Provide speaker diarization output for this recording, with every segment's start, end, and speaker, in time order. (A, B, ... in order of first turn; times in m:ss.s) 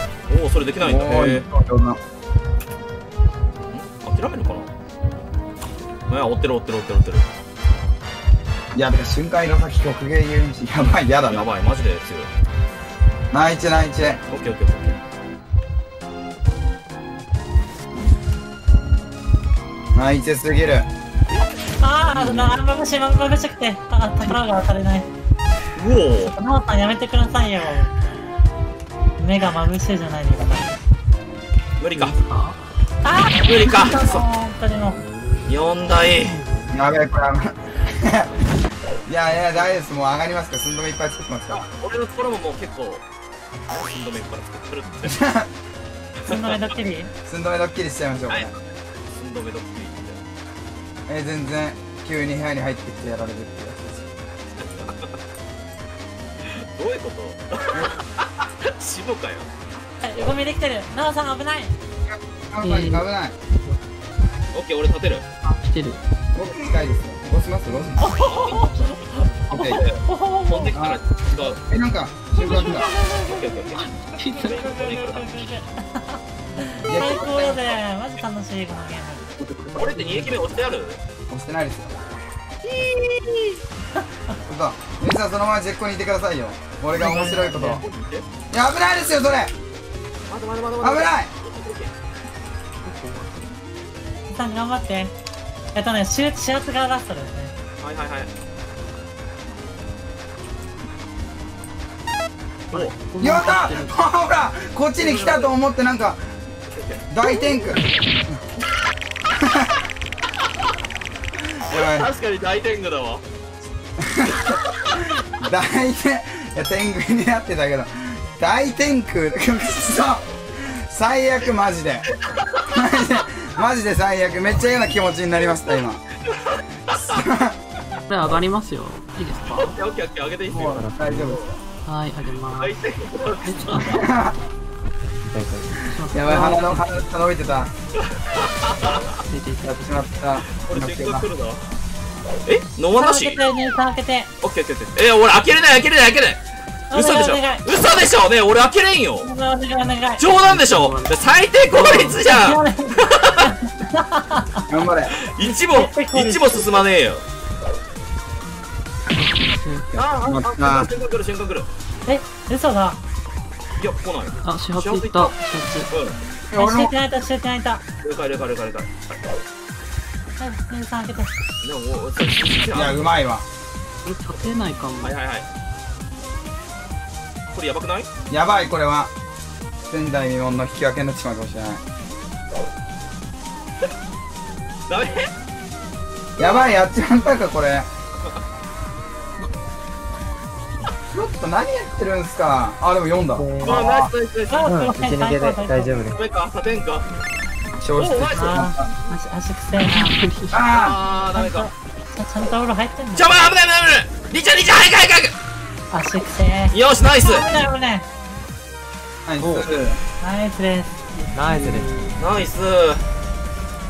0:00.3-0:01.5 A
0:00.8-0:02.0 B
0:03.7-0:04.7 A
0:06.1-0:07.3 A
0:08.7-0:11.5 B
0:11.2-0:12.3 A
0:13.3-0:14.2 B
0:14.0-0:15.0 A
0:20.0-0:20.9 B
0:21.8-0:25.1 C
0:25.8-0:26.4 A
0:26.3-0:27.9 C
0:29.2-0:30.8 C
0:31.8-0:32.2 A
0:31.9-0:32.6 D
0:33.0-0:35.0 C
0:33.4-0:34.2 A
0:35.4-0:36.4 A
0:36.7-0:38.3 B
0:39.1-0:41.6 B
0:41.5-0:43.0 A
0:43.7-0:45.2 A
0:45.0-0:45.5 B
0:46.2-0:46.6 A
0:46.2-0:47.1 C
0:47.3-0:48.6 B
0:49.1-0:50.2 A
0:51.1-0:54.1 B
0:54.6-0:55.2 A
0:56.4-0:59.5 A
1:00.0-1:01.8 C
1:02.1-1:03.4 B
1:02.6-1:03.1 D
1:04.5-1:05.2 A
1:05.4-1:06.0 D
1:06.4-1:08.0 B
1:08.0-1:08.9 C
1:08.1-1:11.6 A
1:09.5-1:09.8 B
1:10.0-1:10.7 C
1:10.8-1:12.9 B
1:12.4-1:13.1 D
1:13.2-1:15.4 A
1:13.7-1:14.6 D
1:14.5-1:19.3 C
1:16.9-1:17.8 B
1:19.4-1:20.4 B
1:19.8-1:21.0 A
1:21.3-1:22.0 B
1:22.8-1:23.6 A
1:24.5-1:27.8 B
1:27.0-1:27.8 C
1:27.7-1:28.3 A
1:28.5-1:29.5 B
1:30.3-1:31.9 A
1:30.8-1:31.3 B
1:32.8-1:33.5 D
1:34.3-1:35.1 C
1:35.7-1:37.5 C
1:37.8-1:38.3 A
1:42.7-1:44.0 D
1:43.2-1:46.2 B
1:45.0-1:45.5 A
1:46.7-1:47.0 A
1:47.1-1:48.4 B
1:51.7-1:52.1 B
1:51.7-1:53.2 A
1:54.0-2:02.1 B
2:02.3-2:02.6 A
2:02.7-2:06.0 B
2:06.3-2:07.2 A
2:06.9-2:07.6 B
2:08.1-2:09.8 D
2:09.5-2:10.7 A
2:10.5-2:11.4 E
2:10.5-2:11.6 B
2:11.8-2:14.2 D
2:12.6-2:14.0 A
2:13.9-2:14.4 B
2:15.2-2:15.8 E
2:15.8-2:17.0 D
2:16.1-2:17.7 B
2:18.0-2:19.1 A
2:19.2-2:20.1 D
2:19.6-2:21.3 B
2:20.4-2:21.6 A
2:22.4-2:23.5 A
2:23.0-2:24.3 C
2:24.4-2:29.3 A
2:26.9-2:27.7 C
2:29.2-2:30.2 C
2:30.2-2:33.4 A
2:30.4-2:31.2 D
2:31.7-2:34.7 C
2:34.7-2:35.2 B
2:35.2-2:37.2 A
2:35.4-2:36.8 C
2:39.2-2:39.9 D
2:39.9-2:40.9 B
2:40.0-2:41.7 A
2:42.1-2:43.0 C
2:43.8-2:45.4 A
2:44.4-2:45.9 D
2:45.9-2:46.2 A
2:46.5-2:46.9 B
2:46.6-2:47.8 C
2:48.0-2:49.2 A
2:50.4-2:51.3 C
2:51.6-2:53.2 A
2:52.7-2:53.5 B
2:54.0-2:55.2 D
2:55.0-2:55.5 A
2:57.5-2:58.1 A
2:58.3-2:59.1 B
2:59.9-3:01.8 B
3:04.9-3:05.3 A
3:06.4-3:07.9 B
3:11.1-3:13.5 B
3:13.4-3:14.1 E
3:13.6-3:14.7 A
3:14.5-3:16.0 C
3:14.6-3:16.2 E
3:16.1-3:17.1 A
3:17.8-3:18.8 B
3:18.0-3:18.6 A
3:18.4-3:20.3 C
3:19.8-3:20.6 D
3:20.5-3:21.0 B
3:20.7-3:21.7 A
3:21.4-3:23.4 C
3:23.1-3:25.4 A
3:25.9-3:28.1 C
3:26.7-3:27.5 A
3:29.3-3:30.0 B
3:29.4-3:29.7 E
3:30.2-3:31.4 C
3:31.3-3:32.2 E
3:32.2-3:33.1 A